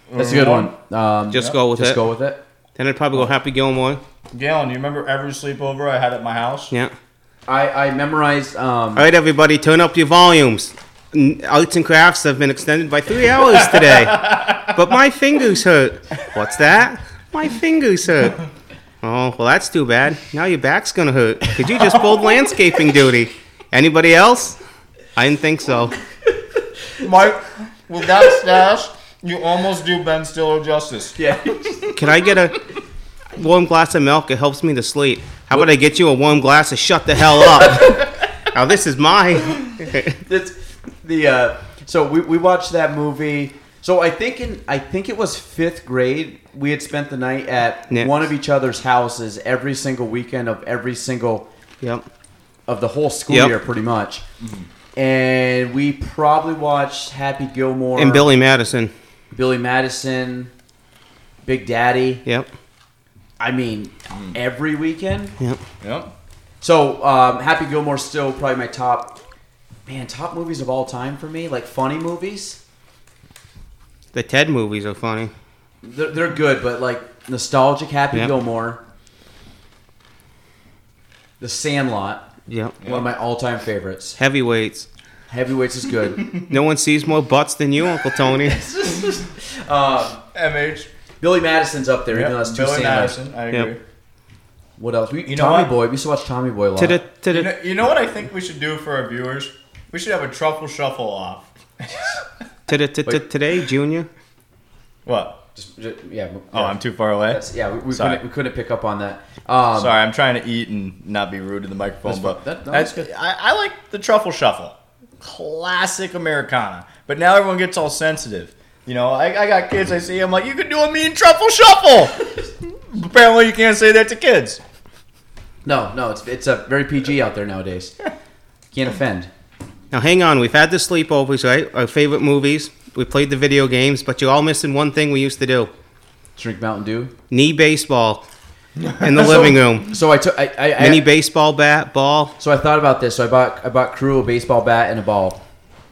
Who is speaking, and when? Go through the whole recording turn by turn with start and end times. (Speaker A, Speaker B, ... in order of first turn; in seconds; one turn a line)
Speaker A: 0.1-0.7
Speaker B: 0.1-2.4
Speaker C: 1.3-2.0
Speaker C: 2.8-4.0
Speaker A: 4.3-6.7
Speaker B: 7.5-9.1
Speaker C: 8.9-18.4
Speaker A: 13.5-14.6
Speaker C: 19.0-24.6
Speaker C: 25.1-25.9
Speaker A: 27.0-31.2
Speaker B: 31.1-31.9
Speaker C: 31.9-32.6
Speaker C: 33.3-40.2
Speaker B: 40.2-51.5
Speaker C: 51.8-52.1
Speaker B: 52.7-54.2
Speaker C: 53.3-53.5
Speaker A: 54.4-54.7
Speaker B: 55.0-58.3
Speaker C: 58.0-58.9
Speaker B: 59.3-60.5
Speaker B: 61.4-62.2
Speaker B: 63.4-65.3
Speaker A: 65.8-66.1
Speaker B: 66.6-69.2
Speaker B: 69.8-72.6
Speaker C: 74.1-75.3
Speaker B: 75.8-78.8
Speaker B: 81.4-82.2
Speaker C: 82.5-82.8
Speaker B: 82.8-84.2
Speaker A: 82.8-83.1
Speaker C: 84.2-84.9
Speaker B: 85.3-86.3
Speaker C: 86.5-88.6
Speaker B: 88.4-90.2
Speaker A: 90.3-90.9
Speaker B: 91.2-93.2
Speaker A: 92.1-93.8
Speaker B: 94.8-97.0
Speaker A: 95.3-95.8
Speaker C: 96.8-97.5
Speaker A: 97.3-102.2
Speaker C: 102.7-104.1
Speaker A: 105.0-105.4
Speaker B: 105.5-109.9
Speaker A: 106.5-108.2
Speaker A: 109.8-122.3
Speaker B: 112.0-113.1
Speaker A: 122.9-124.6
Speaker B: 125.6-128.0
Speaker B: 128.7-129.3
Speaker C: 129.9-135.7
Speaker B: 136.4-137.1
Speaker C: 137.3-138.2
Speaker A: 138.9-139.4
Speaker C: 139.0-140.0
Speaker B: 139.9-141.1
Speaker C: 140.8-142.3
Speaker B: 142.4-145.4